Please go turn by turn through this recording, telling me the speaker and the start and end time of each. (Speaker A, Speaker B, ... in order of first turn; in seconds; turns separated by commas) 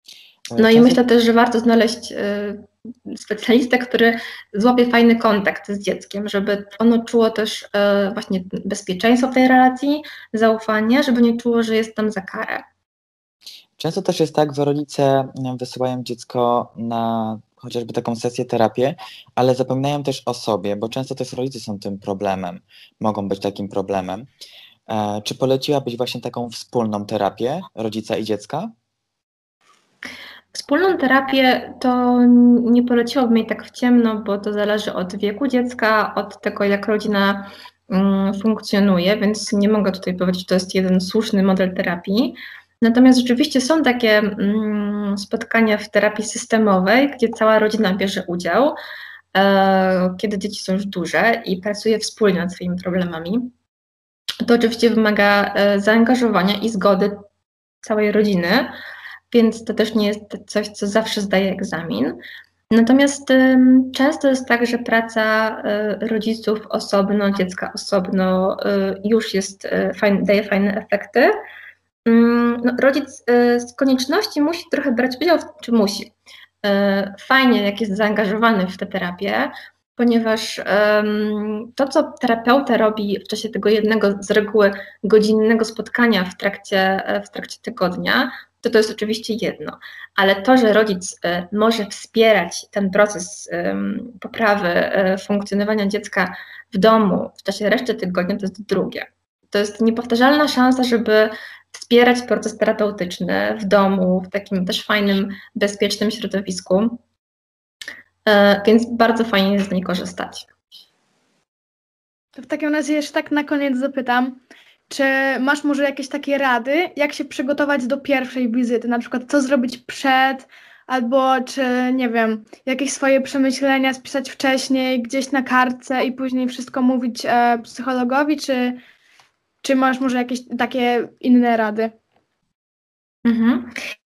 Speaker A: 0.5-1.0, Speaker B: 0.6-12.6, Speaker A: 13.8-24.3, Speaker A: 24.9-28.7, Speaker B: 30.5-48.8, Speaker B: 49.3-53.5, Speaker B: 54.4-57.2, Speaker B: 57.8-58.7, Speaker B: 59.3-71.3, Speaker B: 72.0-76.1, Speaker B: 76.6-107.0, Speaker B: 108.2-110.5, Speaker C: 112.3-128.8, Speaker C: 129.6-131.9, Speaker B: 133.2-133.8